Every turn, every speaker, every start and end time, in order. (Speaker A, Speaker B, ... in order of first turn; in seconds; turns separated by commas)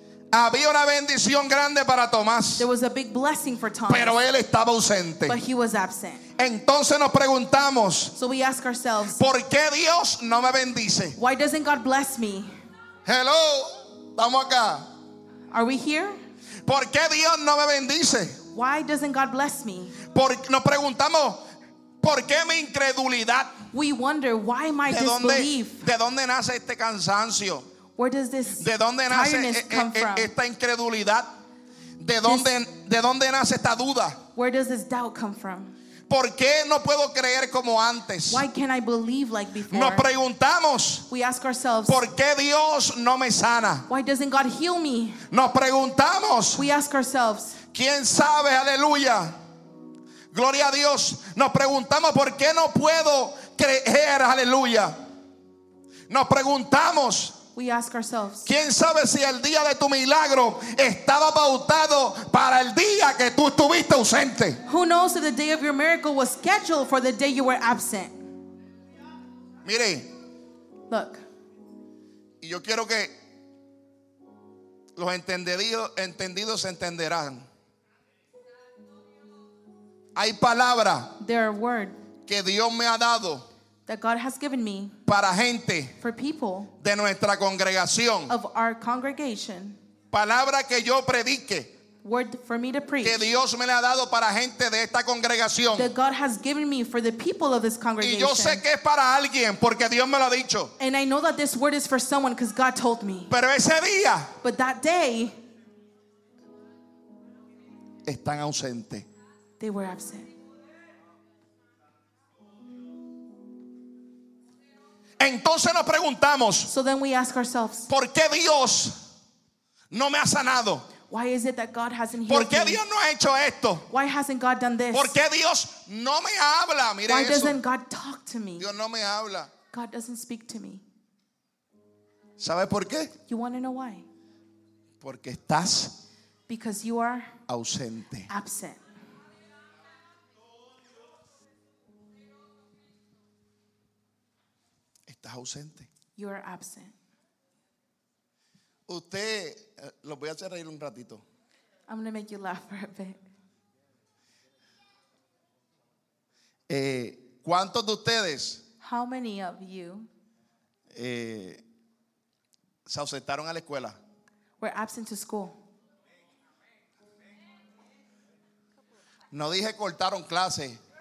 Speaker A: 0.3-2.6, Speaker B: 2.6-4.2, Speaker A: 3.9-5.4, Speaker B: 5.3-6.2, Speaker A: 6.4-8.2, Speaker B: 8.2-9.2, Speaker A: 9.1-11.2, Speaker B: 11.2-12.5, Speaker A: 13.0-14.9, Speaker B: 15.5-16.2, Speaker A: 16.6-18.4, Speaker B: 18.5-19.9, Speaker A: 20.1-21.4, Speaker A: 22.0-23.6, Speaker B: 23.7-25.9, Speaker A: 24.9-27.7, Speaker B: 28.0-30.3, Speaker A: 28.6-31.3, Speaker A: 32.0-34.2, Speaker B: 34.3-35.7, Speaker A: 36.1-38.4, Speaker B: 38.3-40.0, Speaker A: 39.7-41.1, Speaker B: 41.1-42.0, Speaker A: 41.9-43.9, Speaker B: 43.9-45.2, Speaker A: 45.3-46.7, Speaker B: 46.5-47.6, Speaker A: 47.7-49.4, Speaker A: 50.3-55.0, Speaker A: 56.1-57.4, Speaker B: 57.5-58.5, Speaker A: 58.5-64.6, Speaker B: 64.7-68.2, Speaker A: 69.6-70.1, Speaker B: 70.9-71.2, Speaker A: 72.4-73.1, Speaker A: 75.0-77.5, Speaker A: 80.1-81.2, Speaker B: 81.2-82.0, Speaker A: 82.3-83.5, Speaker B: 83.9-85.0, Speaker A: 85.0-86.0, Speaker B: 86.0-86.7, Speaker A: 86.8-88.3, Speaker B: 88.3-89.8, Speaker A: 90.1-91.7, Speaker B: 92.0-93.2, Speaker A: 93.0-95.9, Speaker B: 95.7-98.6, Speaker A: 98.0-100.7, Speaker B: 100.8-103.3, Speaker A: 103.3-104.3, Speaker B: 104.4-105.3, Speaker A: 108.0-109.0, Speaker B: 109.6-110.3, Speaker A: 115.2-116.7, Speaker B: 116.7-117.9, Speaker A: 117.9-119.0, Speaker A: 119.9-120.9, Speaker B: 121.1-122.8, Speaker A: 122.3-123.8, Speaker B: 123.9-125.2, Speaker A: 124.9-127.6, Speaker B: 127.1-128.7, Speaker A: 128.6-129.5, Speaker B: 129.7-130.8, Speaker A: 132.4-133.1, Speaker B: 133.2-134.0, Speaker A: 135.0-136.0, Speaker B: 136.5-137.3, Speaker A: 137.5-138.3, Speaker B: 138.3-138.8, Speaker A: 145.1-145.9, Speaker B: 146.2-146.9, Speaker A: 148.9-151.2, Speaker B: 151.9-153.2, Speaker A: 156.7-158.6, Speaker B: 158.8-160.1, Speaker A: 160.9-161.6, Speaker A: 162.8-164.0, Speaker B: 164.6-165.6, Speaker A: 169.3-170.8